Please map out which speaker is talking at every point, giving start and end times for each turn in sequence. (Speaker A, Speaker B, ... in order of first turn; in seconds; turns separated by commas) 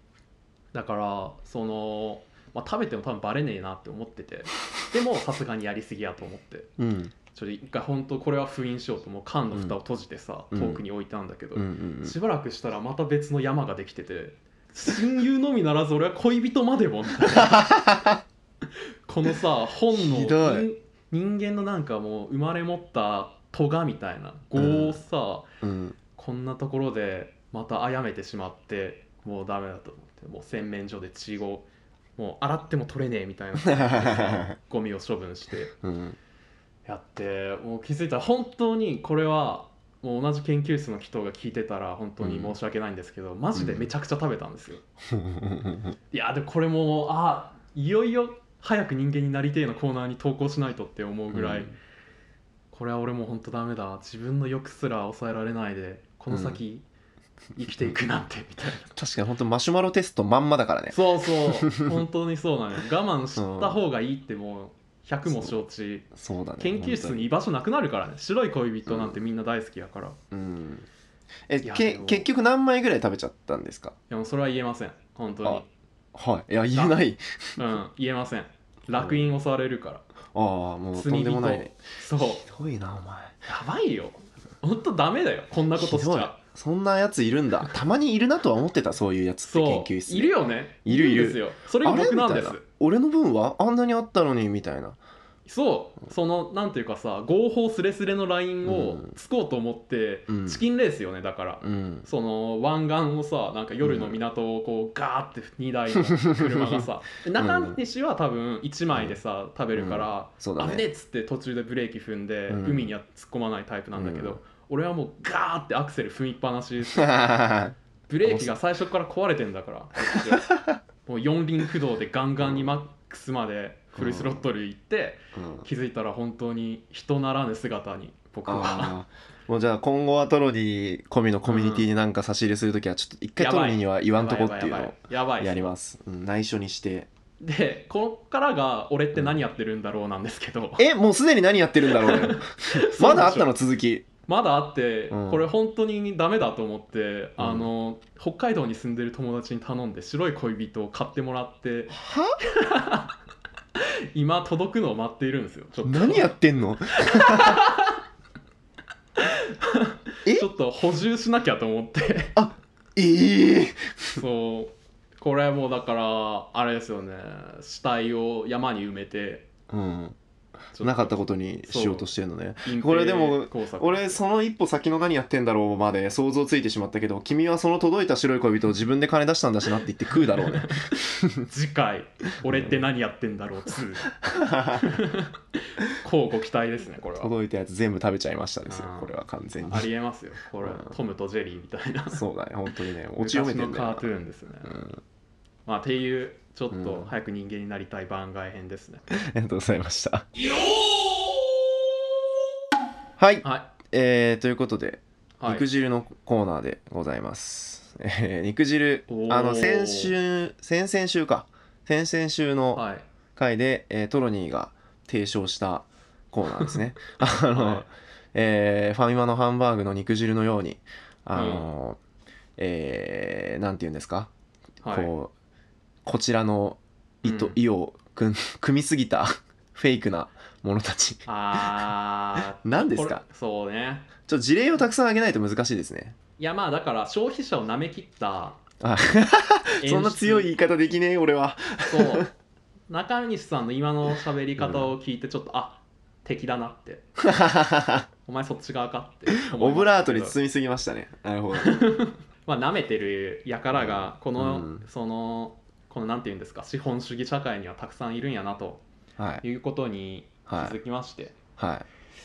Speaker A: 0.7-6.7, Speaker B: 6.8-7.1, Speaker A: 7.3-17.8, Speaker B: 10.5-10.8, Speaker B: 11.6-12.2, Speaker B: 17.3-18.2, Speaker A: 19.1-25.5, Speaker B: 19.9-20.7, Speaker B: 24.6-25.0, Speaker B: 25.6-26.0, Speaker A: 26.1-35.8, Speaker B: 33.6-34.5, Speaker B: 35.8-36.2, Speaker A: 36.9-44.8, Speaker B: 42.2-42.6, Speaker B: 43.5-43.9, Speaker B: 45.1-46.0, Speaker A: 46.1-51.7, Speaker B: 51.3-51.7, Speaker A: 52.7-56.9, Speaker B: 56.3-56.6, Speaker A: 57.6-58.9, Speaker B: 58.9-62.0, Speaker A: 60.9-70.2, Speaker B: 63.4-63.8, Speaker B: 65.3-65.6, Speaker B: 66.1-67.3, Speaker B: 68.9-69.2, Speaker B: 70.3-70.9, Speaker B: 71.5-74.0, Speaker A: 71.6-72.3, Speaker A: 74.1-75.7, Speaker B: 76.1-77.6, Speaker A: 77.6-80.0, Speaker B: 78.9-79.3, Speaker B: 80.3-81.7, Speaker A: 80.9-82.5, Speaker B: 82.4-83.4, Speaker A: 83.5-86.4, Speaker B: 85.8-95.0, Speaker A: 89.4-92.6, Speaker A: 95.5-117.2, Speaker B: 98.7-99.1, Speaker B: 100.3-100.6, Speaker B: 101.6-102.1, Speaker B: 103.8-104.2, Speaker B: 106.2-107.8, Speaker B: 108.9-109.2, Speaker B: 109.8-110.8, Speaker B: 112.5-112.9, Speaker B: 114.0-114.4, Speaker B: 116.9-118.5, Speaker A: 118.1-129.0, Speaker B: 122.4-122.7, Speaker B: 124.0-124.4, Speaker B: 125.3-125.7, Speaker B: 128.5-137.1, Speaker A: 131.5-131.9, Speaker A: 133.4-135.7, Speaker A: 137.4-140.9, Speaker B: 140.8-144.1, Speaker A: 141.9-143.5, Speaker A: 144.3-153.1, Speaker B: 145.1-145.5, Speaker B: 147.4-147.7, Speaker B: 151.9-152.4, Speaker A: 153.8-156.4, Speaker B: 155.8-157.6, Speaker A: 156.9-158.0, Speaker A: 159.2-162.4, Speaker B: 162.3-164.2, Speaker A: 164.1-169.5, Speaker B: 169.7-170.2, Speaker A: 170.7-172.1, Speaker B: 170.8-181.5, Speaker A: 172.7-174.2, Speaker A: 180.2-184.2, Speaker B: 182.5-182.8, Speaker B: 184.2-185.0, Speaker A: 184.7-187.3, Speaker B: 187.2-189.9, Speaker A: 188.7-189.1, Speaker A: 189.7-192.2, Speaker B: 190.6-190.9, Speaker B: 192.1-194.1, Speaker A: 193.2-194.8, Speaker B: 194.7-195.0, Speaker A: 195.7-199.1, Speaker B: 196.7-197.1, Speaker B: 199.1-200.3, Speaker B: 203.2-212.8, Speaker A: 203.4-203.7, Speaker A: 205.4-205.7, Speaker A: 209.1-210.1, Speaker A: 212.7-213.1, Speaker B: 213.4-222.0, Speaker A: 217.5-217.9, Speaker A: 221.3-221.7, Speaker B: 222.6-224.3, Speaker A: 224.8-225.1, Speaker B: 224.9-225.3, Speaker B: 226.1-231.8, Speaker A: 227.2-227.6, Speaker A: 231.3-234.1, Speaker B: 232.4-233.2, Speaker B: 234.3-236.2, Speaker A: 236.4-238.6, Speaker B: 238.8-242.3, Speaker A: 239.8-240.5, Speaker A: 241.9-242.3, Speaker A: 242.9-247.1, Speaker B: 244.6-244.9, Speaker B: 247.2-248.1, Speaker A: 248.3-250.4, Speaker B: 249.5-251.8, Speaker A: 251.6-258.8, Speaker B: 253.7-254.8, Speaker B: 259.2-259.4, Speaker A: 259.4-261.4, Speaker B: 260.5-260.8, Speaker B: 261.6-261.9